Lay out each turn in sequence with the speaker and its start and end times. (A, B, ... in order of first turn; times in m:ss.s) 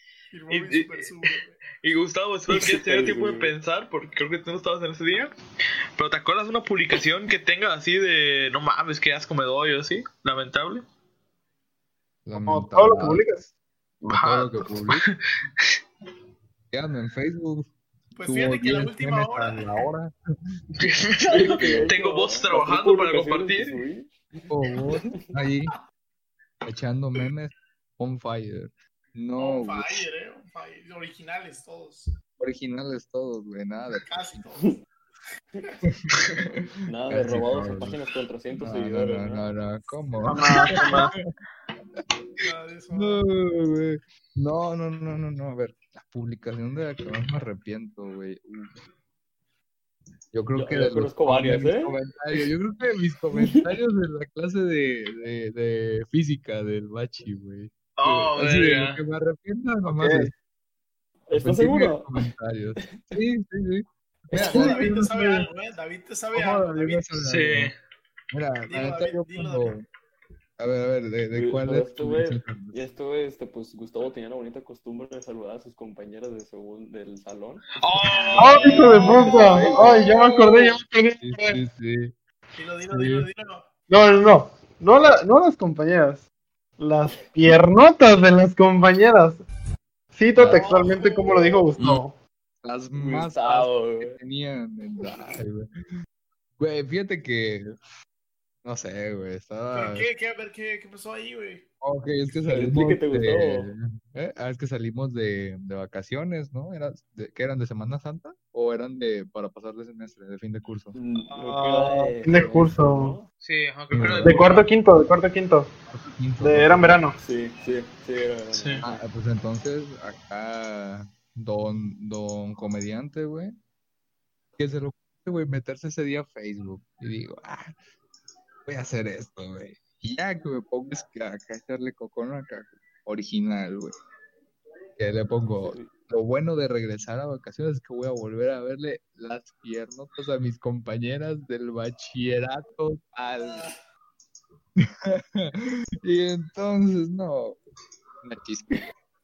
0:00.3-0:01.6 A
0:00.5-0:05.3 B
0:02.5-0:03.5 C
0:06.0-0:10.8 B
0:12.2-0:13.2 D
0:12.3-0:13.5 E
0:14.0-0:15.7 B
0:14.1-0:15.0 D
0:16.7-0:17.7 D
0:18.2-0:19.8 A
0:18.2-0:20.6 D
0:20.7-0:23.8 B
0:21.3-0:25.2 C
0:21.6-0:21.8 D
0:21.9-0:22.3 A
0:24.5-0:25.7 D
0:26.6-0:30.1 D
0:29.4-0:32.1 A
0:32.4-0:34.0 D
0:34.0-0:34.8 A
0:35.8-0:38.0 D
0:36.8-0:39.5 C
0:38.5-0:41.2 D
0:40.2-0:41.1 E
0:42.4-0:43.3 A
0:42.9-0:48.8 D
0:50.3-1:00.3 D
0:50.6-0:51.9 C
0:53.3-0:53.6 C
0:58.0-0:59.0 B
0:59.8-1:00.3 E
1:01.3-1:02.1 C
1:01.3-1:05.5 D
1:02.8-1:03.2 C
1:04.3-1:04.8 C
1:04.3-1:07.1 A
1:06.3-1:07.7 D
1:07.2-1:07.7 B
1:08.3-1:09.8 D
1:08.6-1:09.8 A
1:10.6-1:12.8 D
1:11.3-1:20.1 C
1:17.8-1:20.7 B
1:18.3-1:18.9 A
1:18.4-1:21.6 E
1:21.2-1:22.1 D
1:22.5-1:23.7 A
1:22.9-1:23.3 D
1:23.9-1:26.2 E
1:26.8-1:29.4 E
1:30.1-1:32.2 E
1:30.3-1:30.6 D
1:30.4-1:31.8 A
1:32.6-1:35.7 D
1:33.0-1:34.2 C
1:36.6-1:37.7 D
1:38.6-1:40.0 D
1:39.7-1:41.6 A
1:41.8-1:51.0 D
1:42.4-1:43.7 C
1:50.9-1:53.3 C
1:51.3-1:53.2 E
1:53.4-1:54.6 B
1:53.9-1:54.5 D
1:54.2-1:55.7 E
1:55.9-1:57.0 D
1:56.4-1:57.2 E
1:57.2-1:59.0 C
1:58.5-1:58.8 B
1:58.8-2:03.6 D
2:04.6-2:07.8 D
2:08.6-2:14.0 D
2:15.0-2:23.7 D
2:15.6-2:15.9 C
2:23.4-2:23.7 A
2:24.8-2:27.6 D
2:28.2-2:28.8 D